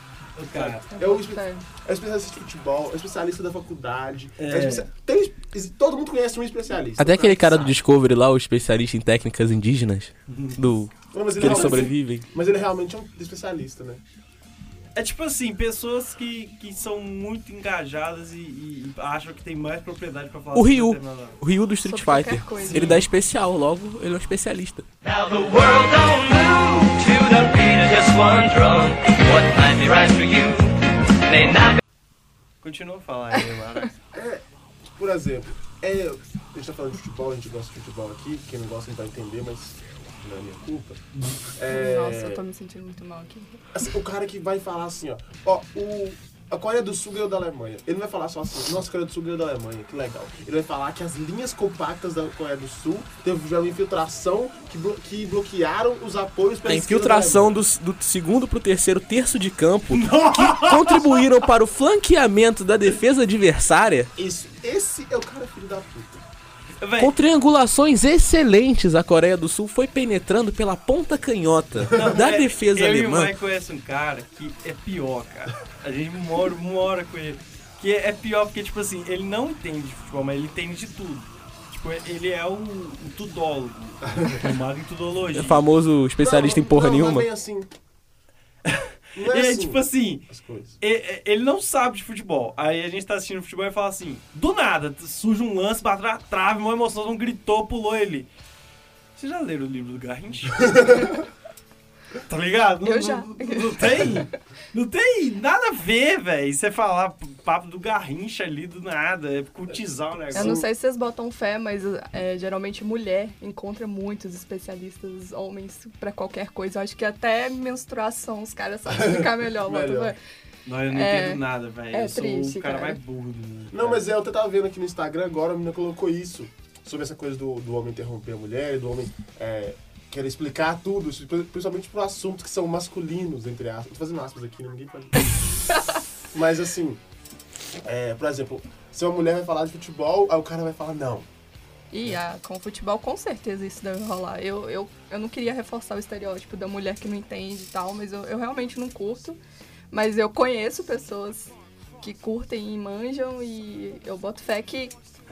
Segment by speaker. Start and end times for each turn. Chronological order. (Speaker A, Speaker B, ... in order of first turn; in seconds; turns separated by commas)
Speaker A: 0.3-0.8, Speaker B: 0.5-7.8, Speaker C: 0.9-1.6, Speaker A: 4.4-4.9, Speaker D: 7.0-12.2, Speaker A: 10.3-10.7, Speaker B: 11.1-14.0, Speaker A: 11.4-11.9, Speaker A: 14.9-21.4, Speaker D: 20.5-24.9, Speaker C: 21.8-23.0, Speaker E: 25.0-31.8, Speaker A: 32.6-33.9, Speaker B: 34.1-41.0, Speaker B: 41.5-42.4, Speaker C: 41.7-43.6, Speaker B: 43.7-57.6, Speaker D: 56.6-64.1, Speaker A: 59.9-61.4, Speaker B: 64.2-66.2, Speaker A: 66.8-67.1, Speaker D: 67.0-73.3, Speaker A: 71.9-85.6, Speaker D: 85.3-87.3, Speaker B: 86.2-87.7, Speaker A: 88.6-90.2, Speaker B: 89.2-90.8, Speaker A: 90.8-98.3, Speaker A: 99.2-101.2, Speaker A: 102.2-110.6, Speaker C: 102.8-104.2, Speaker B: 110.3-110.7, Speaker C: 110.3-120.2, Speaker B: 118.9-120.2, Speaker A: 120.7-124.1, Speaker C: 120.9-123.0, Speaker B: 123.7-135.3, Speaker B: 136.3-137.0, Speaker B: 137.8-141.3, Speaker C: 141.9-149.4, Speaker C: 149.9-154.9